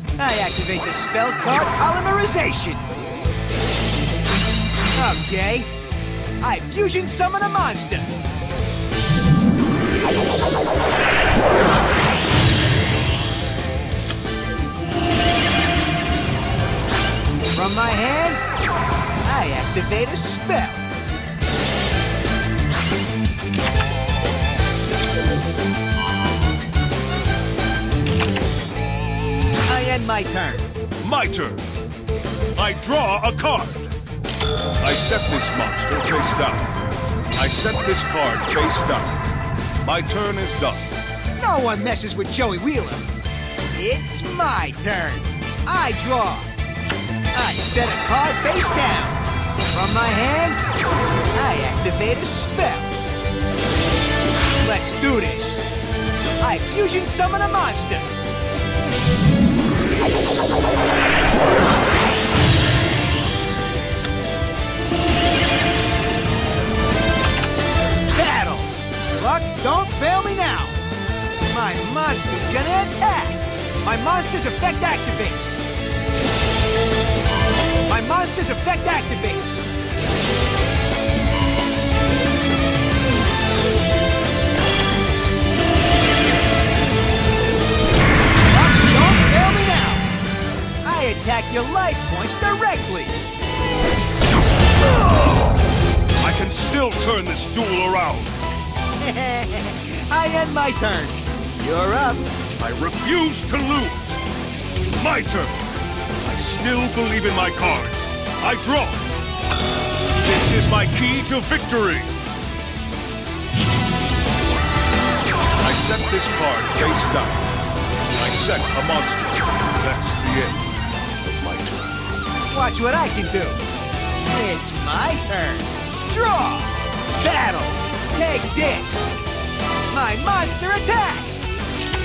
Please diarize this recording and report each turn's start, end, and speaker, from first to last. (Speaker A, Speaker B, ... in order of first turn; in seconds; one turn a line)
Speaker A: 0.2-2.9
Speaker A: 4.9-5.7
Speaker A: 6.4-8.2
Speaker A: 17.5-18.4
Speaker A: 19.2-20.9
Speaker A: 29.6-30.7
Speaker B: 31.0-31.6
Speaker B: 32.5-33.9
Speaker B: 34.8-36.7
Speaker B: 37.4-39.2
Speaker B: 39.8-40.9
Speaker A: 41.4-43.1
Speaker A: 43.7-46.5
Speaker A: 47.3-50.6
Speaker A: 51.3-52.9
Speaker A: 54.6-55.7
Speaker A: 56.4-58.2
Speaker A: 68.1-70.8
Speaker A: 71.5-75.6
Speaker A: 77.9-79.7
Speaker A: 88.4-90.1
Speaker A: 90.8-93.2
Speaker B: 96.2-98.3
Speaker A: 99.0-102.3
Speaker B: 102.6-104.2
Speaker B: 104.9-105.7
Speaker B: 106.2-109.0
Speaker B: 110.2-112.1
Speaker B: 115.6-117.4
Speaker B: 118.2-122.2
Speaker A: 122.5-123.6
Speaker A: 124.3-129.2
Speaker A: 129.9-131.6